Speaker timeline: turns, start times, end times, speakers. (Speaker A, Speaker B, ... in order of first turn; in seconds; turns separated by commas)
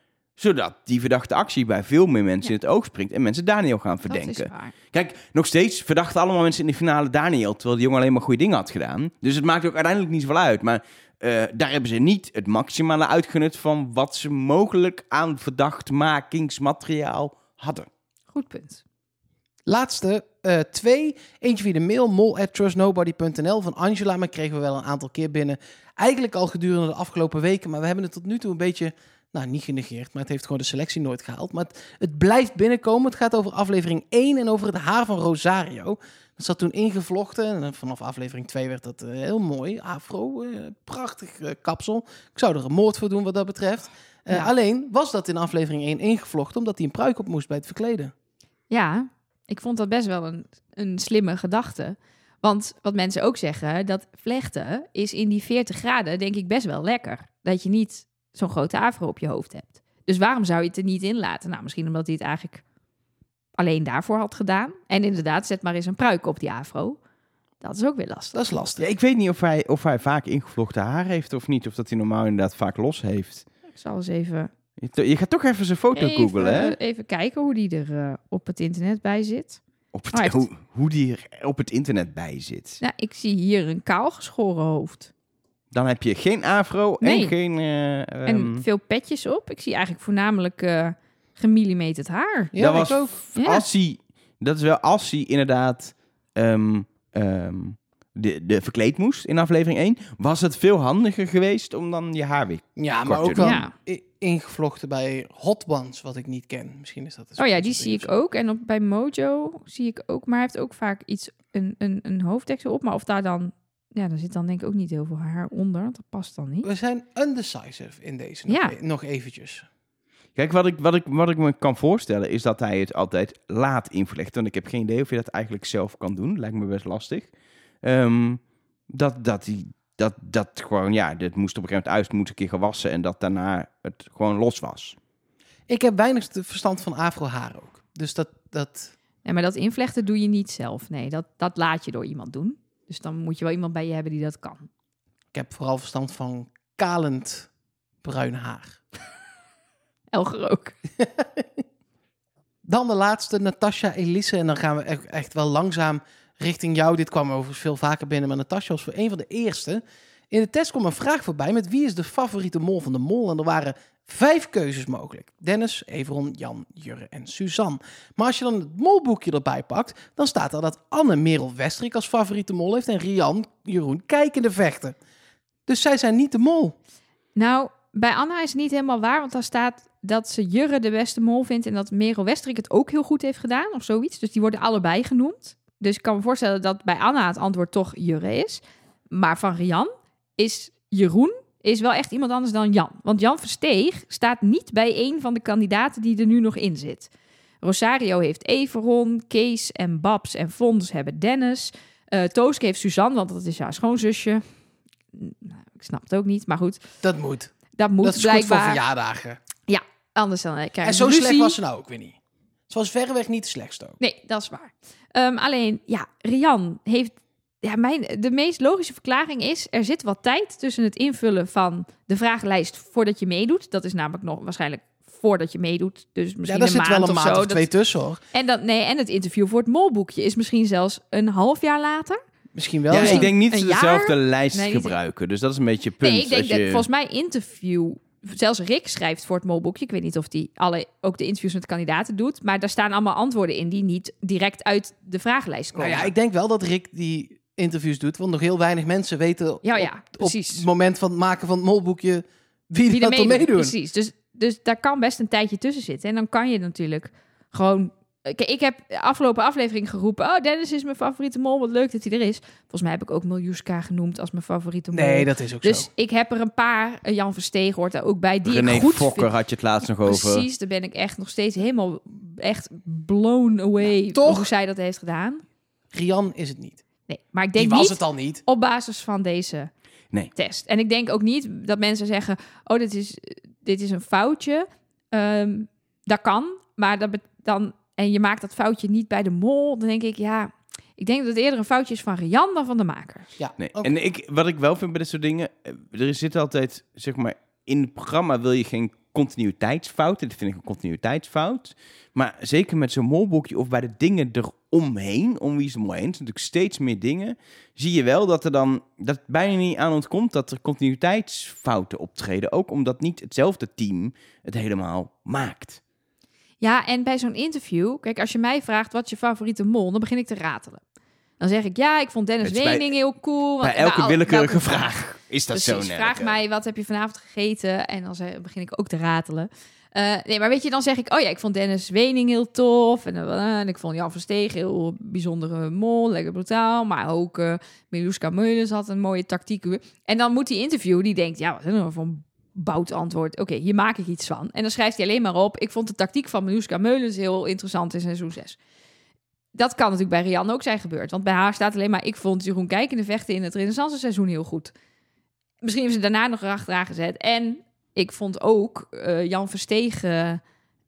Speaker A: 0.4-17.9, Speaker B: 4.1-4.8, Speaker B: 18.3-18.8, Speaker C: 19.7-48.1, Speaker B: 48.7-62.6, Speaker B: 63.6-67.0, Speaker B: 67.6-68.4, Speaker C: 68.3-68.8, Speaker A: 68.8-73.5, Speaker B: 73.8-74.5, Speaker A: 74.8-76.8, Speaker B: 76.0-79.6, Speaker A: 79.9-82.8, Speaker B: 80.1-80.4, Speaker B: 82.8-85.1, Speaker A: 85.7-88.6, Speaker B: 87.0-87.3, Speaker B: 88.3-92.5, Speaker C: 92.5-93.2, Speaker A: 92.6-103.5, Speaker B: 93.4-93.7, Speaker C: 102.8-108.1, Speaker B: 103.4-103.7, Speaker B: 107.4-116.7, Speaker C: 116.6-119.7, Speaker B: 118.5-118.8, Speaker A: 120.4-127.3, Speaker A: 127.8-135.0, Speaker C: 135.7-138.9, Speaker B: 139.2-144.7, Speaker C: 145.3-147.5, Speaker C: 148.0-148.8, Speaker B: 150.1-150.8, Speaker C: 151.2-151.4, Speaker C: 152.7-175.0, Speaker C: 175.7-176.8, Speaker B: 177.4-197.1, Speaker B: 197.6-204.4, Speaker B: 205.1-206.8, Speaker C: 207.0-209.4, Speaker B: 207.8-208.8, Speaker B: 209.7-211.6, Speaker C: 210.8-212.2, Speaker C: 212.7-214.0, Speaker B: 214.0-227.7, Speaker C: 226.4-228.2, Speaker B: 228.3-232.2, Speaker C: 232.6-233.3, Speaker A: 232.9-236.8, Speaker B: 233.0-235.0, Speaker B: 236.0-246.1, Speaker C: 245.8-253.7, Speaker B: 249.6-250.7, Speaker B: 252.9-269.3, Speaker C: 264.9-265.9, Speaker A: 268.4-270.4, Speaker B: 270.1-275.4, Speaker C: 274.1-274.5, Speaker C: 275.9-276.8, Speaker B: 277.1-279.7, Speaker C: 277.6-278.4, Speaker B: 280.4-293.3, Speaker C: 293.4-293.9, Speaker A: 293.6-315.8, Speaker B: 316.6-320.8, Speaker B: 321.4-348.6, Speaker A: 322.4-322.9, Speaker A: 323.6-326.3, Speaker B: 349.5-354.7, Speaker B: 355.6-360.4